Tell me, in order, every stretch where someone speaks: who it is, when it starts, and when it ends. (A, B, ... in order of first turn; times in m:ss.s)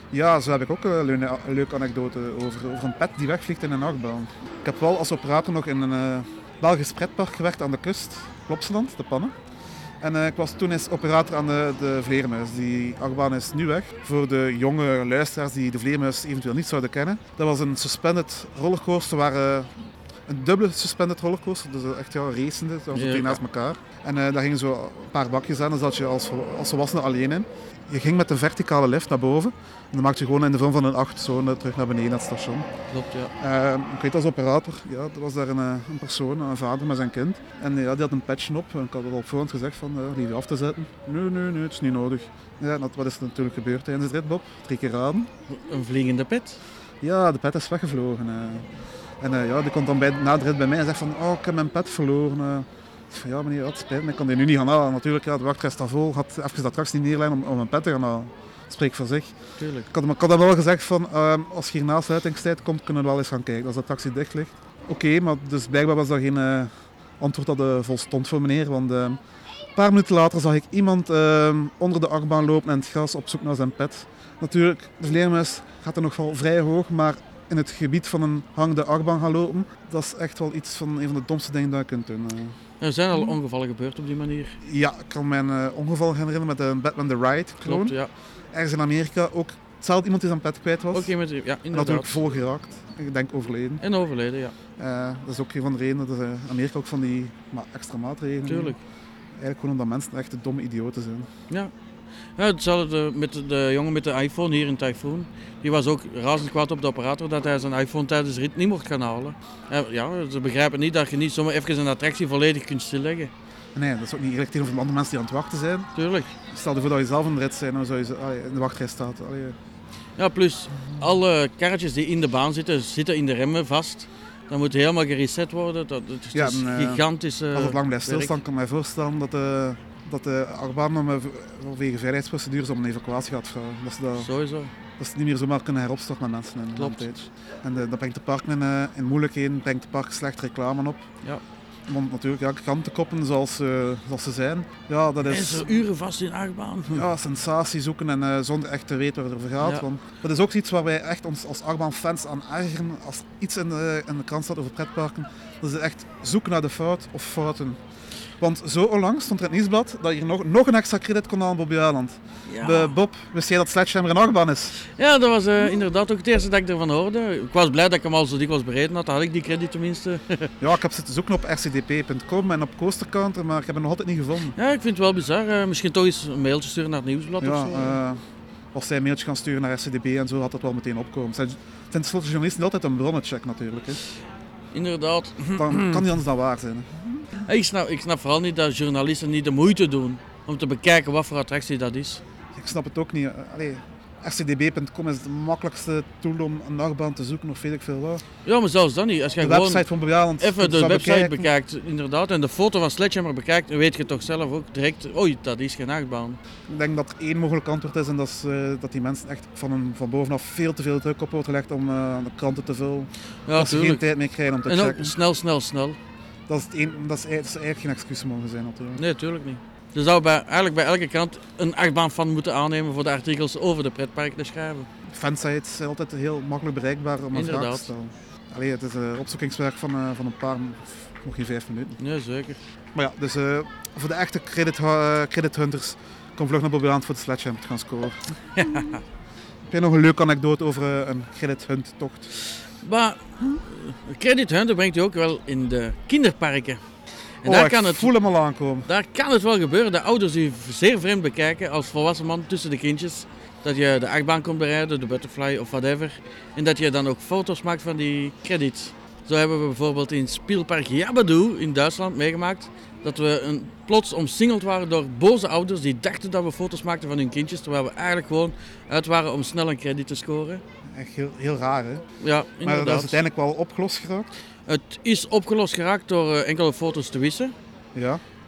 0:00.1-0:09.3 A
0:10.0-0:19.7 A
0:20.3-0:32.7 A
0:22.9-0:23.4 B
0:32.9-0:33.3 B
0:33.4-0:45.3 A
0:45.5-0:46.6 B
0:47.0-0:48.7 A
0:49.2-0:59.3 A
0:59.6-0:59.9 B
0:59.9-1:09.2 A
1:09.8-1:22.6 A
1:22.8-1:24.6 B
1:24.6-1:28.0 A
1:27.6-1:28.1 B
1:28.5-1:31.1 A
1:30.9-1:32.2 B
1:31.7-1:33.8 A
1:33.8-1:34.6 B
1:34.8-1:38.8 A
1:38.5-1:38.8 B
1:39.4-1:41.3 A
1:42.4-1:53.3 B
1:53.8-1:55.9 A
1:56.0-1:56.3 B
1:56.5-1:59.6 A
2:00.2-2:08.4 B
2:06.3-2:14.3 A
2:14.2-2:14.7 B
2:15.0-2:21.0 A
2:16.8-2:17.1 B
2:21.9-2:25.7 A
2:25.2-2:27.1 B
2:26.9-2:37.8 A
2:38.4-2:44.8 A
2:42.5-2:42.9 B
2:44.8-2:50.5 B
2:50.6-2:54.6 A
2:54.6-2:58.0 B
2:57.4-2:58.2 A
2:58.7-3:04.0 A
3:04.7-3:06.1 B
3:05.6-3:07.3 A
3:07.4-3:12.2 B
3:12.6-3:18.2 A
3:18.4-3:19.8 B
3:19.4-3:21.5 A
3:20.4-3:26.4 B
3:26.7-3:35.2 A
3:33.5-3:34.0 B
3:34.7-3:36.0 B
3:36.5-3:39.0 A
3:39.0-3:44.9 B
3:45.1-3:52.0 A
3:47.3-3:47.9 B
3:52.0-3:52.6 B
3:53.0-3:58.2 A
3:58.6-3:59.0 B
3:59.7-4:02.3 A
4:02.8-4:06.8 B
4:07.4-4:08.1 B
4:07.4-4:08.9 A
4:08.9-4:30.6 B
4:30.9-4:32.0 A
4:32.2-4:33.2 B
4:32.6-4:34.3 A
4:34.7-4:37.5 B
4:38.0-4:38.2 A